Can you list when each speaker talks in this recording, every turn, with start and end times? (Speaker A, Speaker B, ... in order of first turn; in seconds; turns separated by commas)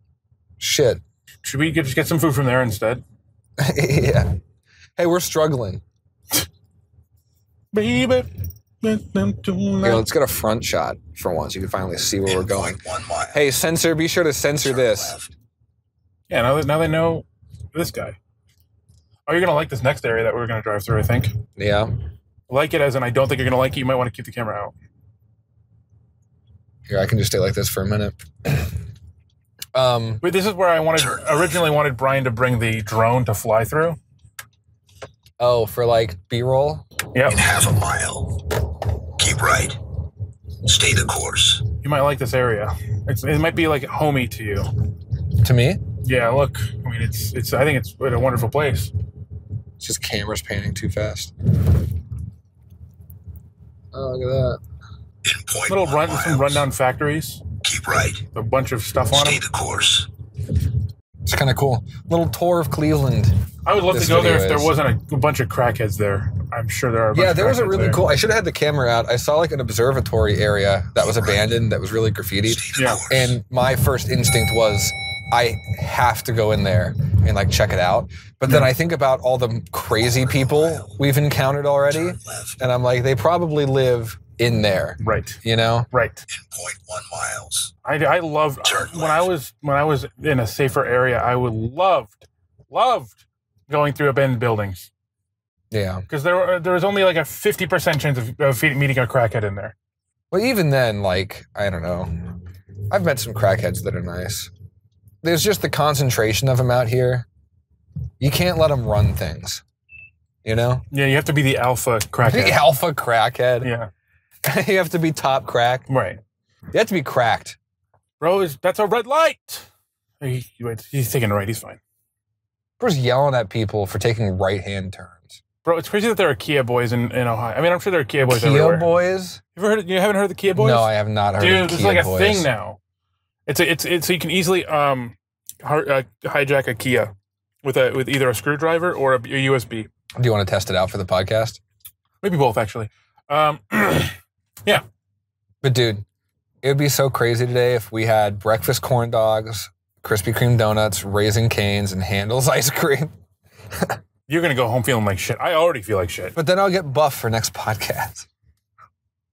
Speaker A: 0.6-1.0, Speaker B: 1.4-3.0, Speaker A: 3.6-4.3, Speaker A: 5.0-5.8, Speaker B: 7.7-8.3, Speaker B: 8.8-10.1, Speaker A: 9.8-12.8, Speaker C: 12.2-13.4, Speaker A: 13.3-15.2, Speaker C: 14.6-15.3, Speaker B: 16.3-18.2, Speaker B: 19.3-21.3, Speaker A: 21.6-21.9, Speaker B: 22.5-24.7, Speaker A: 26.9-28.7, Speaker A: 29.7-30.2, Speaker B: 30.2-34.0, Speaker C: 30.9-31.7, Speaker A: 35.4-36.9, Speaker B: 37.1-37.4, Speaker C: 37.3-38.4, Speaker C: 39.2-39.8, Speaker C: 40.6-41.6, Speaker B: 41.8-44.7, Speaker A: 45.4-45.8, Speaker B: 46.0-48.9, Speaker A: 49.8-51.3, Speaker A: 53.9-54.6, Speaker C: 55.2-56.7, Speaker B: 55.7-57.4, Speaker C: 57.6-58.2, Speaker B: 58.3-59.4, Speaker C: 59.1-60.1, Speaker A: 61.2-64.7, Speaker B: 63.6-68.0, Speaker A: 67.1-85.9, Speaker C: 71.0-71.5, Speaker C: 72.5-73.4, Speaker B: 72.7-73.0, Speaker B: 78.5-78.7, Speaker C: 80.1-81.0, Speaker C: 81.9-82.6, Speaker B: 85.0-85.4, Speaker B: 85.9-86.2, Speaker C: 86.3-87.7, Speaker B: 87.8-94.9, Speaker C: 88.6-89.3, Speaker A: 95.7-96.0, Speaker B: 96.1-99.7, Speaker A: 100.3-102.1, Speaker A: 102.9-104.5, Speaker A: 105.2-107.2, Speaker A: 108.2-109.6, Speaker A: 110.4-110.8, Speaker B: 110.9-112.6, Speaker A: 112.2-113.7, Speaker B: 113.6-113.9, Speaker A: 114.4-115.9, Speaker B: 115.9-116.2, Speaker A: 116.7-117.6, Speaker B: 118.2-119.7, Speaker B: 120.2-121.8, Speaker A: 122.8-125.4, Speaker B: 125.6-128.9, Speaker A: 128.3-129.4, Speaker B: 129.6-132.8, Speaker A: 130.5-132.5, Speaker B: 133.5-137.1, Speaker B: 137.6-139.9, Speaker A: 140.2-141.6, Speaker B: 142.2-144.8, Speaker A: 145.6-146.0, Speaker A: 146.6-153.1, Speaker B: 154.3-156.3, Speaker A: 156.3-158.3